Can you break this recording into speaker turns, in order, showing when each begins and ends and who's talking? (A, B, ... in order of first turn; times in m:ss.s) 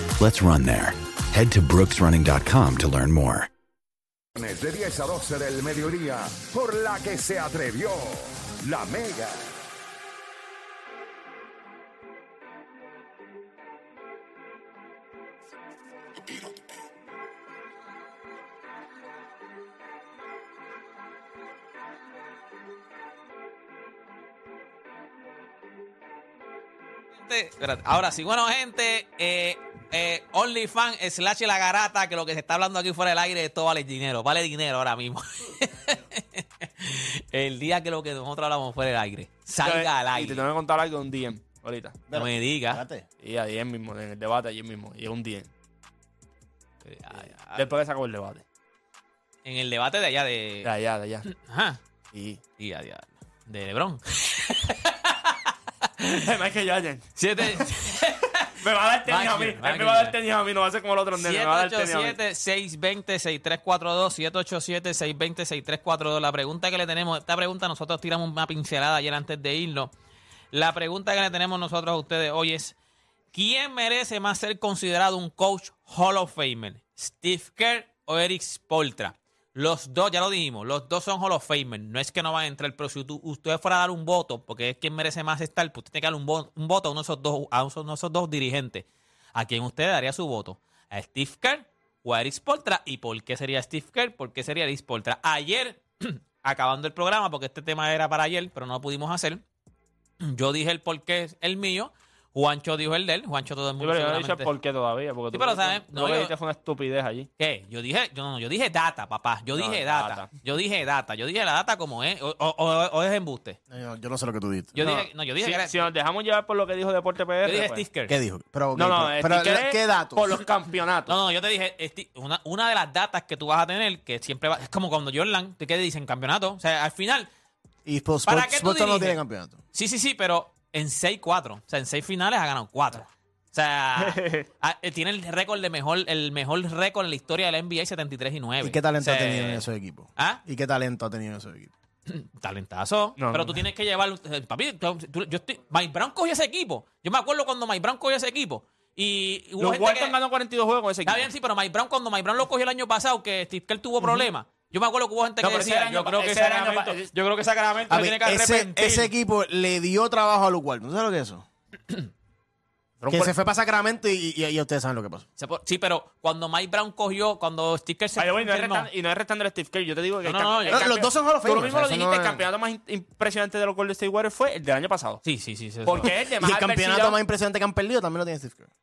0:00.2-0:03.5 A
0:04.3-0:09.4 B
0:27.2-0:40.4 C
0:39.6-0:42.0 D
0:42.1-0:43.0 E
0:42.1-0:42.8 C
0:43.2-0:45.5 D
0:46.8-0:47.6 C
0:47.5-0:48.4 D
0:49.4-0:50.7 C
0:50.6-0:51.2 D
0:51.3-0:51.8 C
0:52.1-0:52.4 D
0:52.6-0:56.2 C
0:56.2-0:57.6 D
0:57.2-0:58.5 C
0:58.6-1:02.2 D
0:59.1-1:00.2 C
1:01.2-1:09.9 C
1:10.5-1:12.7 C
1:13.3-1:39.4 C
1:40.2-1:44.5 C
1:43.8-1:47.3 D
1:45.3-1:46.3 C
1:47.4-1:53.6 C
1:49.6-1:50.3 D
1:53.7-1:54.8 E
1:54.7-1:55.9 C
1:54.8-1:57.8 D
1:57.4-1:58.1 C
1:58.1-2:00.3 E
1:58.7-2:01.1 D
2:01.1-2:07.3 C
2:07.8-2:09.6 E
2:08.2-2:09.2 C
2:09.7-2:20.4 C
2:14.0-2:14.4 D
2:18.6-2:21.7 E
2:22.1-2:30.2 C
2:23.2-2:23.6 D
2:29.6-2:31.3 D
2:31.0-2:39.1 C
2:35.4-2:37.1 D
2:37.9-2:41.4 E
2:43.0-2:43.3 D
2:43.1-2:45.3 E
2:45.4-2:48.9 C
2:48.2-2:55.2 D
2:50.2-2:50.9 C
2:50.7-2:52.4 E
2:55.2-2:56.1 C
2:55.8-2:57.2 D
2:56.4-2:58.7 E